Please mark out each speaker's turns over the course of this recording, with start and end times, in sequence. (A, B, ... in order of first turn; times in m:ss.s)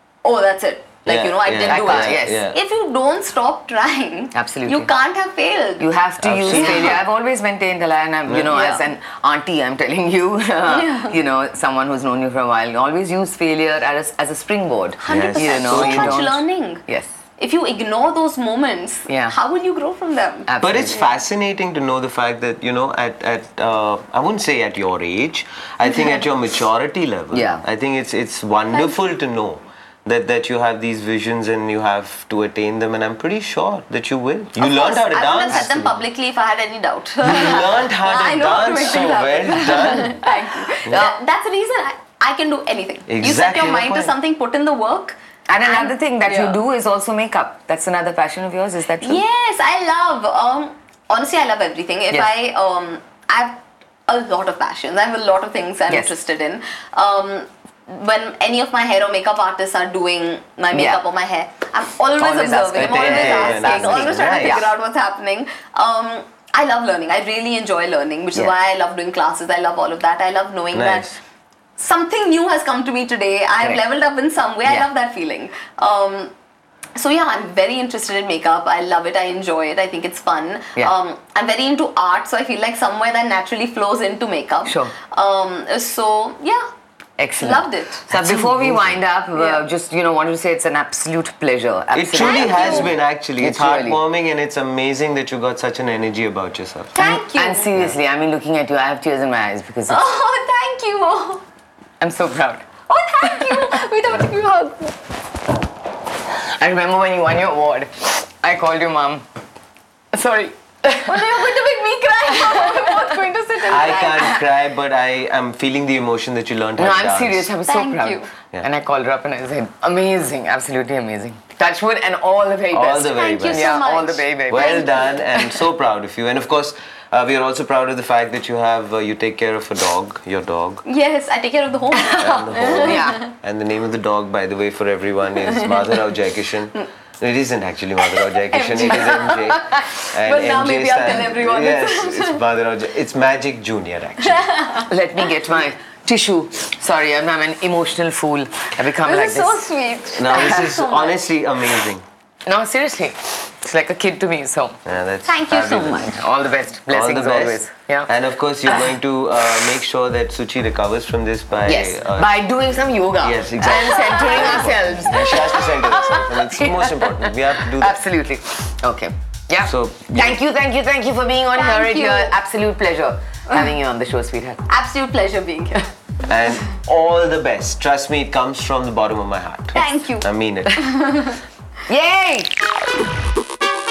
0:00.2-0:05.9 A
0:01.1-0:02.6 B
0:01.6-0:02.5 C
0:04.3-0:04.9 C
0:05.8-0:17.1 C
0:06.2-0:07.0 B
0:06.5-0:07.0 A
0:08.3-0:08.5 B
0:08.5-0:08.8 A
0:10.7-0:11.2 A
0:15.0-0:16.8 A
0:15.1-0:16.2 B
0:17.4-0:21.1 A
0:19.1-0:19.3 C
0:20.5-0:21.0 C
0:20.6-0:35.9 B
0:27.3-0:27.6 C
0:34.6-0:46.6 A
0:37.2-0:40.3 B
0:43.1-0:44.1 B
0:45.5-0:49.2 C
0:49.0-1:11.2 A
1:00.7-1:01.0 C
1:02.2-1:04.7 C
1:02.8-1:04.7 B
1:10.7-1:11.1 B
1:11.8-1:16.3 A
1:17.0-1:26.6 A
1:24.6-1:24.9 C
1:27.2-1:34.0 C
1:27.4-1:28.1 A
1:28.1-1:29.0 B
1:29.3-1:29.6 A
1:31.9-1:37.0 B
1:32.1-1:32.9 A
1:36.9-1:37.7 A
1:37.0-1:40.0 C
1:39.9-1:41.4 A
1:42.0-1:42.6 C
1:42.9-1:44.9 A
1:43.2-1:43.7 C
1:46.3-1:49.2 C
1:50.1-1:51.4 C
1:51.0-1:54.4 A
1:52.3-1:53.1 C
1:53.6-1:57.5 B
1:56.8-2:04.9 C
1:57.6-1:58.3 A
2:02.7-2:03.9 B
2:03.1-2:05.0 A
2:04.5-2:10.8 B
2:10.8-2:13.3 A
2:12.1-2:24.5 B
2:12.8-2:13.2 C
2:15.6-2:16.0 A
2:18.1-2:22.4 A
2:24.2-2:24.9 A
2:24.9-2:29.6 C
2:29.0-2:31.2 A
2:30.1-2:32.0 B
2:32.4-2:34.8 C
2:34.8-2:36.1 B
2:35.2-2:36.2 A
2:36.0-2:38.1 C
2:36.9-2:42.4 B
2:41.6-2:54.6 C
2:43.2-2:48.0 B
2:43.7-2:44.7 A
2:49.6-2:50.4 B
2:51.5-2:52.3 A
2:54.7-2:55.9 A
2:56.2-3:00.9 B
2:59.7-3:01.4 A
3:01.9-3:02.5 C